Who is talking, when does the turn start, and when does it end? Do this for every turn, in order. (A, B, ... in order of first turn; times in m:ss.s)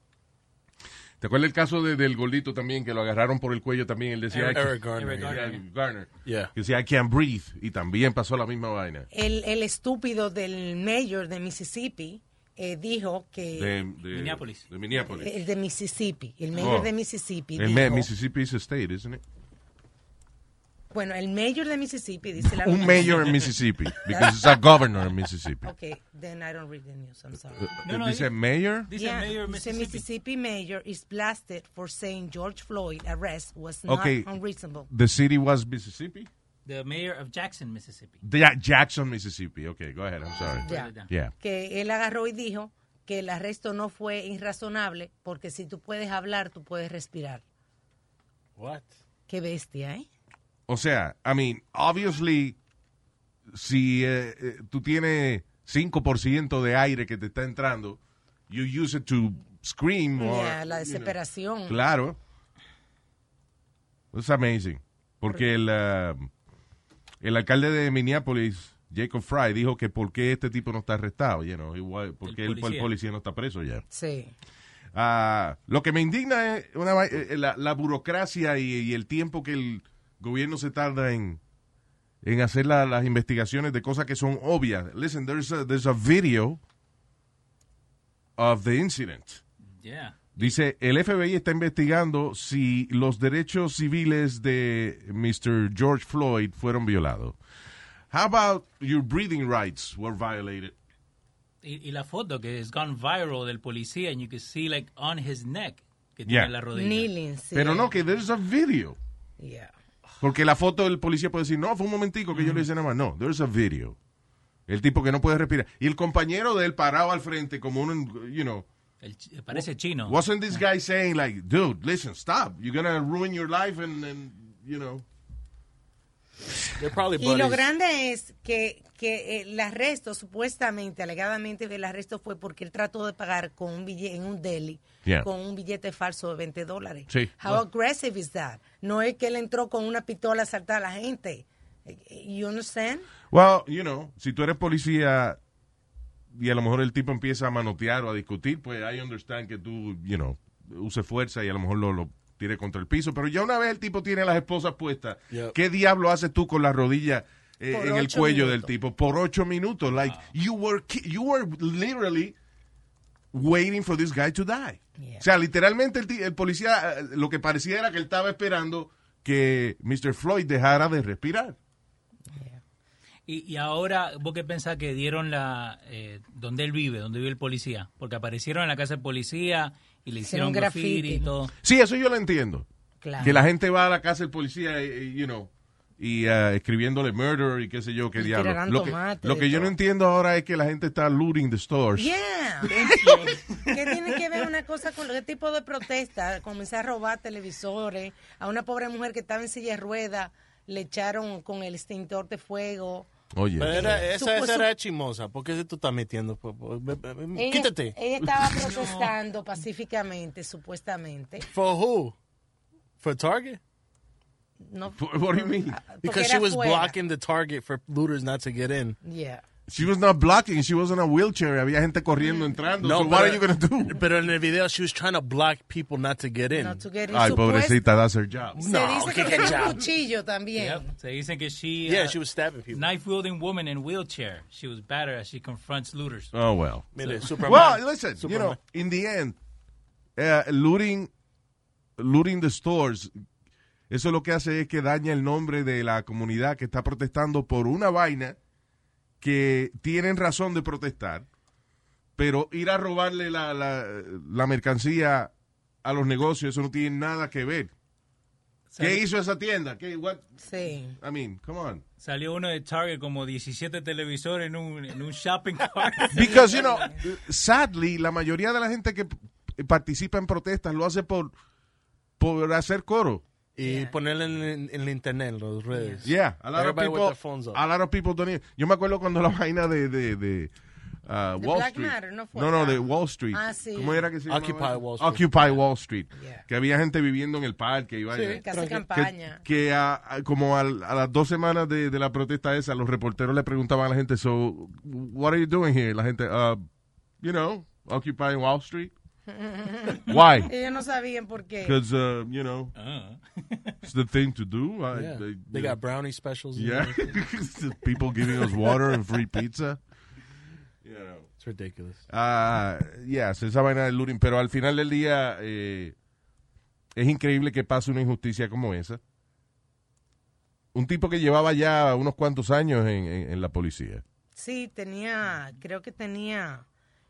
0:01.2-0:09.1 A
0:04.3-0:05.6 B
0:04.5-0:05.5 C
0:06.2-0:06.5 C
0:09.1-0:13.8 D
0:13.6-0:15.3 A
0:14.1-0:14.7 B
0:15.0-0:18.1 D
0:16.6-0:16.9 A
0:17.6-0:19.2 A
0:20.9-0:23.5 D
0:22.4-0:25.7 A
0:23.0-0:23.3 B
0:24.1-0:24.6 D
0:25.6-0:27.7 D
0:27.7-0:28.9 A
0:27.8-0:28.3 B
0:28.9-0:30.0 B
0:29.0-0:34.9 D
0:33.9-0:34.3 A
0:34.9-0:36.3 A
0:36.7-0:38.2 B
0:38.2-0:41.3 A
0:40.6-0:41.1 B
0:40.6-0:47.4 D
0:48.6-0:48.9 C
0:49.3-0:50.1 D
0:50.7-0:52.6 A
0:53.5-1:01.2 A
1:00.2-1:01.8 D
1:01.7-1:02.2 A
1:04.1-1:06.3 A
1:07.2-1:13.8 A
1:12.2-1:12.9 B
1:13.9-1:14.3 D
1:15.0-1:21.4 A
1:22.2-1:26.6 A
1:28.4-1:29.4 A
1:29.8-1:30.5 B
1:30.4-1:37.4 A
1:38.1-1:40.8 A
1:41.6-1:47.1 B
1:46.3-1:46.5 A
1:46.7-1:47.9 D
1:47.5-1:49.0 A
1:49.4-1:49.7 D
1:50.2-1:54.0 A
1:52.3-1:52.7 B
1:54.7-1:58.7 A
1:59.0-2:00.6 B
1:59.5-2:05.0 A
2:06.8-2:07.7 C
2:07.2-2:23.1 D
2:23.3-2:25.4 A
2:26.3-2:42.4 A
2:37.7-2:38.7 D
2:43.3-2:51.6 A
2:45.0-2:45.2 D
2:52.3-2:52.6 D
2:53.3-3:01.5 B
3:00.2-3:01.3 D
3:01.6-3:02.7 A
3:03.0-3:03.4 D
3:03.2-3:12.1 A
3:08.2-3:09.7 D
3:12.0-3:13.0 D
3:12.6-3:13.4 A
3:12.7-3:14.1 B
3:13.6-3:23.1 D
3:23.3-3:24.0 A
3:23.6-3:28.5 C
3:23.7-3:24.7 D
3:27.4-3:31.5 D
3:28.7-3:29.1 B
3:31.5-3:32.2 C
3:33.0-3:33.6 C
3:34.6-3:37.0 D
3:35.0-3:35.8 A
3:36.0-3:39.0 C
3:39.0-3:39.4 D
3:39.7-3:44.0 A
3:42.8-3:46.8 C
3:46.5-3:47.8 D
3:47.1-3:48.9 A
3:48.6-3:50.9 D
3:48.6-3:49.8 C
3:50.6-3:52.2 B
3:51.9-3:52.9 C
3:52.7-3:56.3 B
3:56.3-3:59.4 A
3:57.0-3:58.6 C
3:57.0-3:57.8 B
4:00.2-4:01.1 A
4:02.0-4:03.1 A
4:03.9-4:08.4 A
4:09.2-4:11.3 A
4:12.2-4:15.3 A
4:15.8-4:17.7 A
4:18.7-4:19.0 B
4:18.8-4:20.4 A
4:20.4-4:21.0 D
4:20.9-4:21.8 A
4:22.0-4:26.6 B
4:26.1-4:31.4 A
4:26.2-4:27.0 D
4:32.2-4:33.2 A
4:33.6-4:37.6 C
4:33.6-4:34.0 D
4:35.7-4:36.0 D
4:36.0-4:40.5 A
4:41.0-4:56.6 A
4:41.4-4:44.1 D
4:44.3-4:45.4 C
4:46.1-4:46.4 D
4:48.1-4:48.8 C
4:48.3-4:49.4 D
4:57.2-4:58.9 A
4:59.3-5:01.8 D
5:00.1-5:00.5 A
5:01.6-5:02.7 A
5:02.8-5:03.8 B
5:03.8-5:05.8 A
5:04.9-5:07.1 C
5:06.6-5:09.8 A
5:10.8-5:11.3 A
5:11.4-5:12.0 C
5:12.1-5:16.0 A
5:17.0-5:19.0 A
5:20.7-5:24.0 A
5:24.4-5:26.7 D